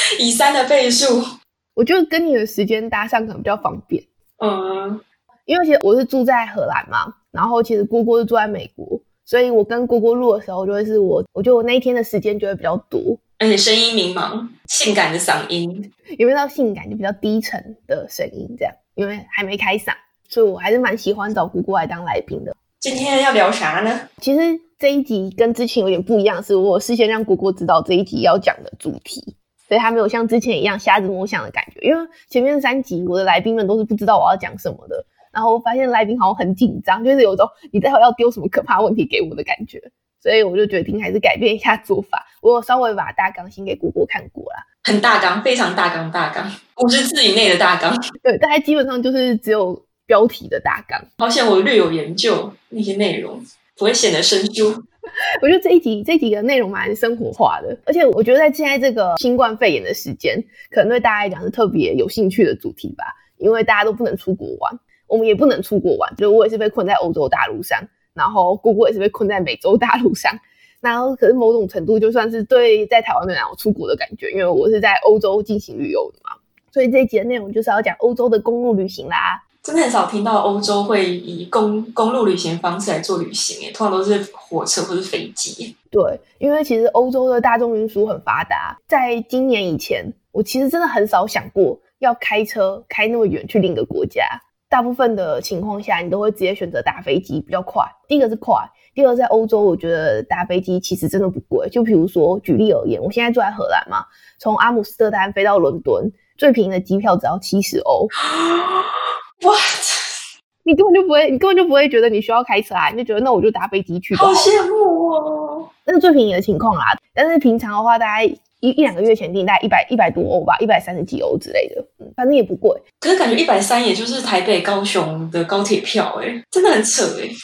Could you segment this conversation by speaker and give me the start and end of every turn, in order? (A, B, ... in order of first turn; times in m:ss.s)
0:00.2-0:01.2 A
0:01.8-0:04.0 B
0:04.4-0:05.0 A
0:05.5-0:13.2 B
0:13.4-0:15.9 A
0:16.1-0:22.5 B
0:22.8-0:24.1 A
0:24.2-0:44.6 B
0:44.8-0:48.0 A
0:48.2-0:51.1 B
0:51.2-0:54.8 A
0:55.4-1:19.4 B
1:19.6-1:25.7 A
1:25.9-1:48.1 B
1:48.2-1:50.2 A
1:50.6-1:54.5 B
1:54.1-1:55.7 A
1:55.8-2:02.8 B
2:03.0-2:07.4 A